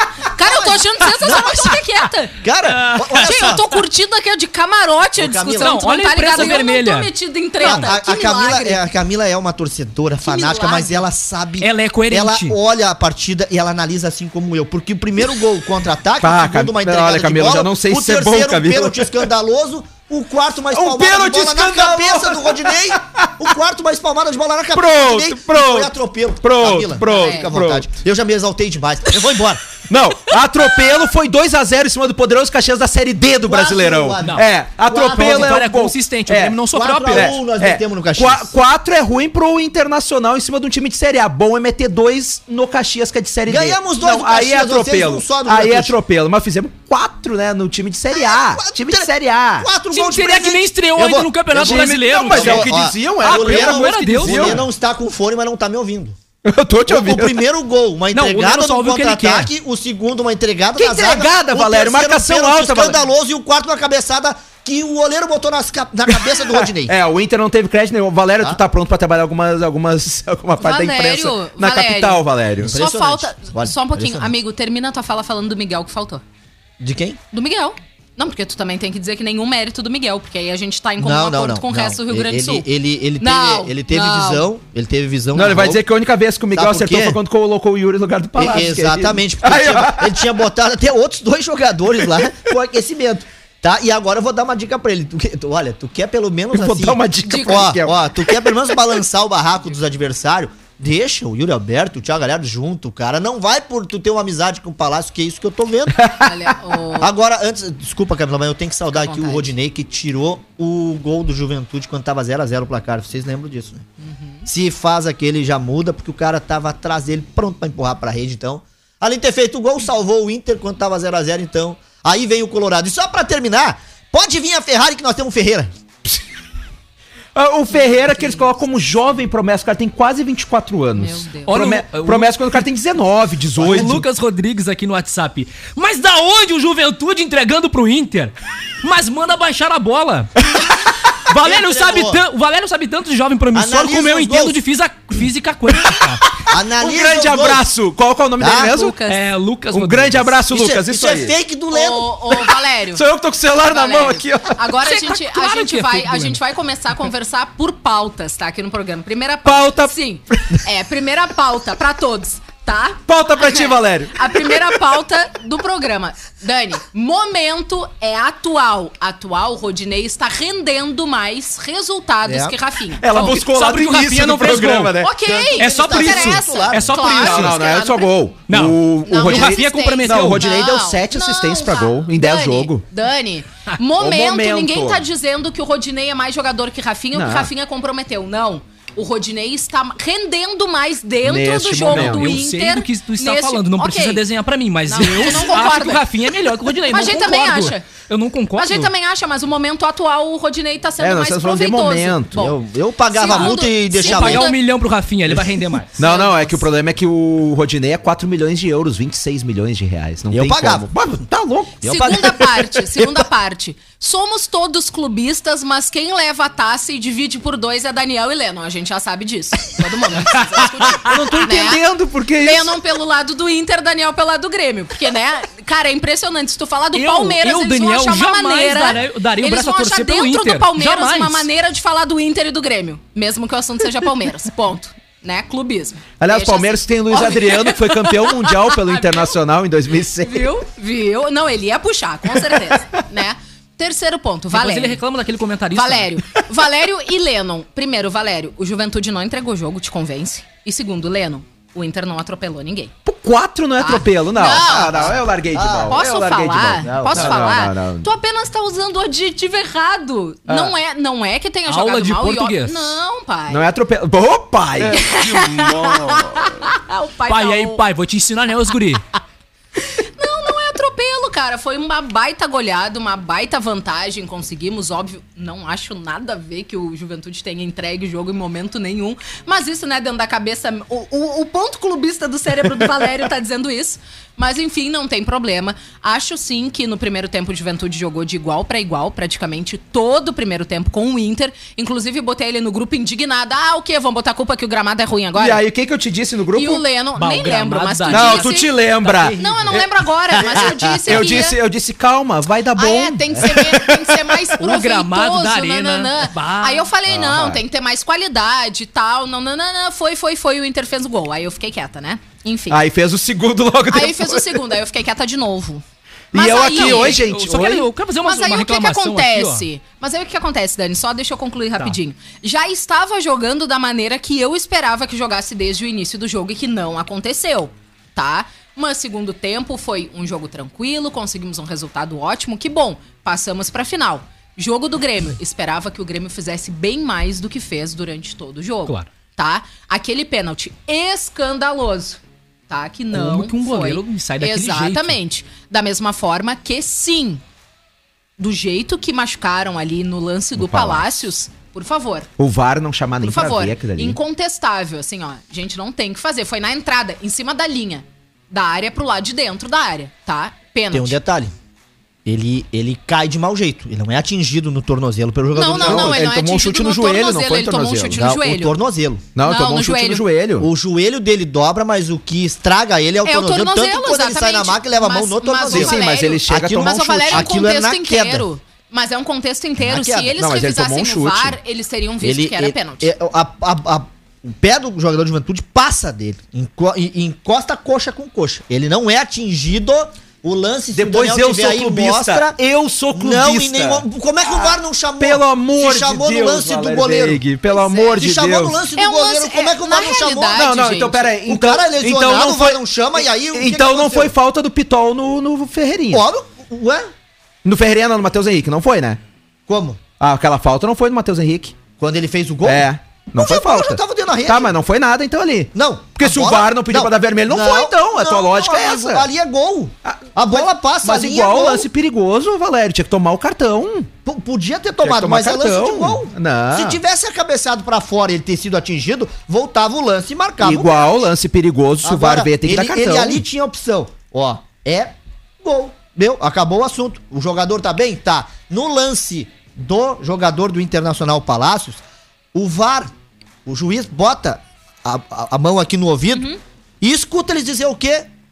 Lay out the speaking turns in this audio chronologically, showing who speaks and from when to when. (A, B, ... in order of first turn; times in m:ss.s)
0:00.3-0:02.4 A
0:00.4-0:01.8 B
0:01.3-0:01.6 C
0:02.4-0:03.7 B
0:02.6-0:03.6 C
0:03.2-0:08.8 A
0:05.2-0:06.6 B
0:05.6-0:07.9 C
0:07.6-0:29.8 B
0:10.2-0:11.0 A
0:11.6-0:12.6 C
0:16.2-0:19.3 D
0:20.7-0:23.5 D
0:24.7-0:27.9 D
0:27.1-0:27.5 A
0:29.8-0:49.7 D
0:33.4-0:35.6 B
0:34.2-0:34.5 C
0:35.1-0:37.4 C
0:36.7-0:38.5 B
0:43.5-0:45.9 B
0:48.1-0:56.2 B
0:49.9-0:54.6 C
0:51.5-0:54.6 D
0:56.4-0:57.5 D
0:56.9-1:06.9 B
0:58.1-0:59.5 C
1:00.8-1:03.0 D
1:06.1-1:12.8 D
1:10.6-1:16.2 A
1:12.6-1:14.3 B
1:16.8-1:17.2 B
1:17.3-1:22.7 A
1:21.0-1:25.8 B
1:23.2-1:24.5 A
1:25.3-1:30.3 D
1:26.5-1:27.2 B
1:28.4-1:46.0 B
1:36.5-1:38.7 D
1:37.2-1:37.7 A
1:46.0-1:46.5 D
1:46.2-1:47.1 A
1:47.0-1:53.8 B
1:48.9-1:49.5 A
1:54.0-1:54.5 A
1:54.5-2:05.7 B
2:07.3-2:14.0 D
2:07.7-2:08.5 A
2:10.9-2:11.6 A
2:11.5-2:12.6 C
2:13.6-2:14.0 B
2:13.6-2:20.4 C
2:21.1-2:26.4 C
2:21.3-2:22.2 B
2:23.5-2:24.6 B
2:26.5-2:27.6 B
2:26.6-2:29.0 D
2:28.4-2:28.7 B
2:28.5-2:29.2 A
2:29.1-2:30.4 C
2:29.7-2:31.3 D
2:30.5-2:32.1 B
2:31.7-2:33.0 A
2:32.3-2:34.6 D
2:33.6-2:53.4 A
2:34.8-2:36.4 C
2:39.4-2:40.6 D
2:43.1-2:44.8 D
2:52.2-2:52.5 B
2:53.0-2:55.1 D
2:53.2-2:55.0 C
2:55.0-2:58.1 A
2:55.2-2:57.1 B
2:55.6-2:57.6 C
2:57.1-3:02.8 D
2:58.5-3:00.4 C
2:59.0-3:14.2 A
3:04.0-3:05.0 D
3:07.1-3:07.5 D
3:11.2-3:12.3 D
3:11.7-3:18.9 C
3:14.9-3:16.0 A
3:16.9-3:17.9 A
3:18.6-3:22.6 A
3:21.0-3:22.4 D
3:22.3-3:24.5 B
3:23.1-3:24.6 A
3:23.3-3:25.9 C
3:26.0-3:32.1 D
3:26.0-3:26.6 A
3:30.3-3:30.9 B
3:31.8-3:33.2 B
3:31.8-3:41.8 A
3:40.8-3:42.8 D
3:42.4-3:59.3 A
3:46.9-3:51.5 C
3:56.2-4:00.5 D
4:00.2-4:05.0 A
4:04.5-4:06.1 C
4:05.7-4:12.9 A
4:13.0-4:18.1 D
4:13.8-4:15.1 A
4:14.8-4:16.0 B
4:15.9-4:23.6 A
4:16.8-4:17.5 B
4:20.5-4:20.7 D
4:21.7-4:22.9 C
4:23.5-4:25.9 D
4:24.9-4:27.8 A
4:27.3-4:29.0 C
4:29.8-4:55.6 A
4:55.3-4:56.8 D
4:56.5-4:58.7 A
4:57.1-4:59.8 C
4:58.1-5:04.3 D
4:59.4-5:01.6 A
5:02.8-5:12.8 A
5:04.6-5:06.9 C
5:07.1-5:07.6 D
5:12.7-5:14.7 D
5:13.9-5:17.2 A
5:16.3-5:17.9 D
5:16.7-5:19.6 C
5:18.2-5:47.4 A
5:43.1-5:45.2 C
5:48.4-5:52.3 A
5:50.6-5:51.3 D
5:52.4-5:54.2 D
5:53.2-6:01.2 A
6:00.9-6:01.5 B
6:02.2-6:06.2 B
6:05.5-6:08.8 A
6:05.7-6:08.2 D
6:08.1-6:09.2 B
6:09.3-6:10.7 D
6:09.4-6:10.2 A
6:10.6-6:18.4 B
6:13.2-6:23.1 A
6:15.7-6:17.6 D
6:19.8-6:20.3 B
6:20.3-6:21.6 D
6:22.2-6:32.6 B
6:30.9-6:38.8 D
6:33.1-6:40.6 B
6:39.0-6:41.3 A
6:40.5-6:46.2 D
6:41.4-6:44.3 B
6:46.1-6:47.1 B
6:47.6-6:49.2 D
6:49.7-6:50.0 B
6:50.2-6:51.8 D
6:52.0-6:54.7 B
6:52.6-6:59.3 D
6:55.7-7:01.9 B
7:00.0-7:04.1 D
7:04.2-7:11.1 B
7:05.0-7:07.0 D
7:10.6-7:13.4 D
7:12.0-7:22.0 B
7:22.5-7:23.1 B
7:23.6-7:26.5 B
7:26.3-7:26.6 A
7:27.0-7:28.3 B